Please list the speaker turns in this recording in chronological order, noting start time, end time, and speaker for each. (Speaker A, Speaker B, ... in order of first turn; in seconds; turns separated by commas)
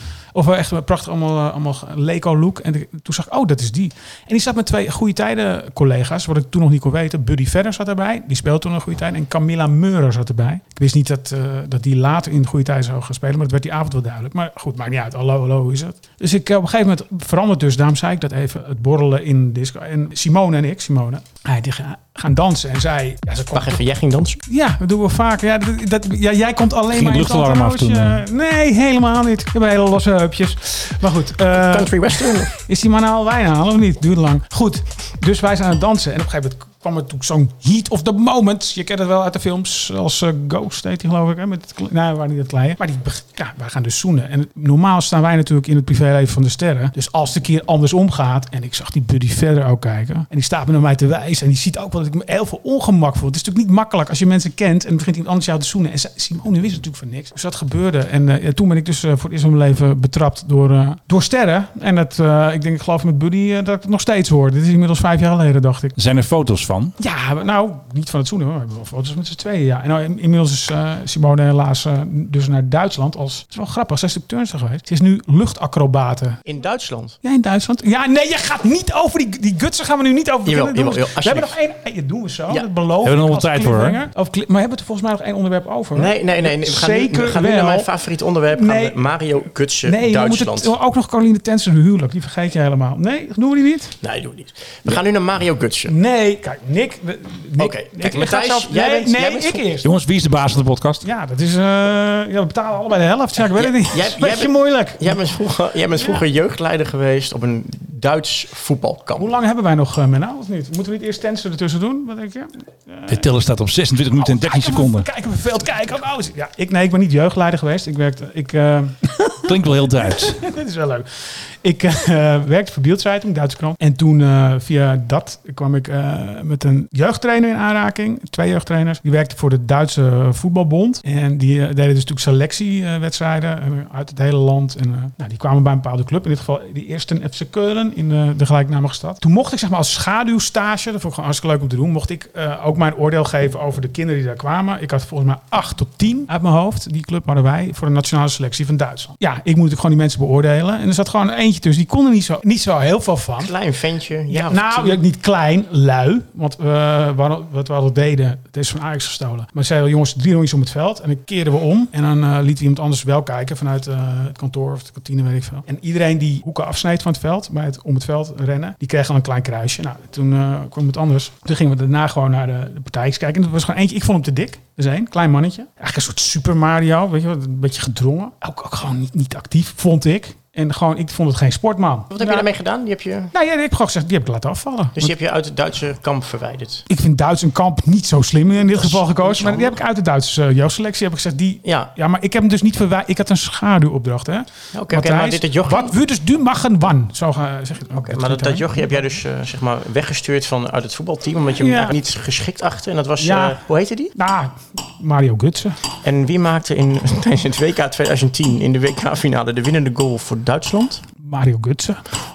Speaker A: 0.3-23.8, Speaker B: 23.5-24.4, Speaker A: 24.5-66.0, Speaker C: 26.9-28.2, Speaker B: 31.5-32.5, Speaker C: 66.0-66.9, Speaker A: 67.0-76.4, Speaker B: 76.5-77.2, Speaker A: 77.2-87.9, Speaker B: 80.5-81.6, Speaker C: 83.0-84.0, Speaker B: 86.0-90.7, Speaker A: 88.5-89.0, Speaker A: 89.8-94.0, Speaker B: 94.0-95.9, Speaker A: 95.9-99.9, Speaker B: 97.6-99.7, Speaker C: 99.8-101.0, Speaker A: 101.0-105.2, Speaker B: 103.4-109.3, Speaker A: 106.0-106.2, Speaker A: 109.2-113.3, Speaker C: 113.1-115.1, Speaker A: 114.2-153.5, Speaker C: 119.5-120.4, Speaker B: 153.4-155.0, Speaker A: 154.3-182.5, Speaker B: 182.1-183.3, Speaker A: 183.3-185.1, Speaker B: 185.0-186.8, Speaker A: 186.9-199.1, Speaker B: 188.7-189.8, Speaker B: 191.6-191.9, Speaker B: 194.7-195.9, Speaker B: 197.9-204.1, Speaker A: 201.6-202.0, Speaker A: 203.2-203.6, Speaker A: 204.2-205.8, Speaker B: 206.0-211.1, Speaker A: 211.2-212.1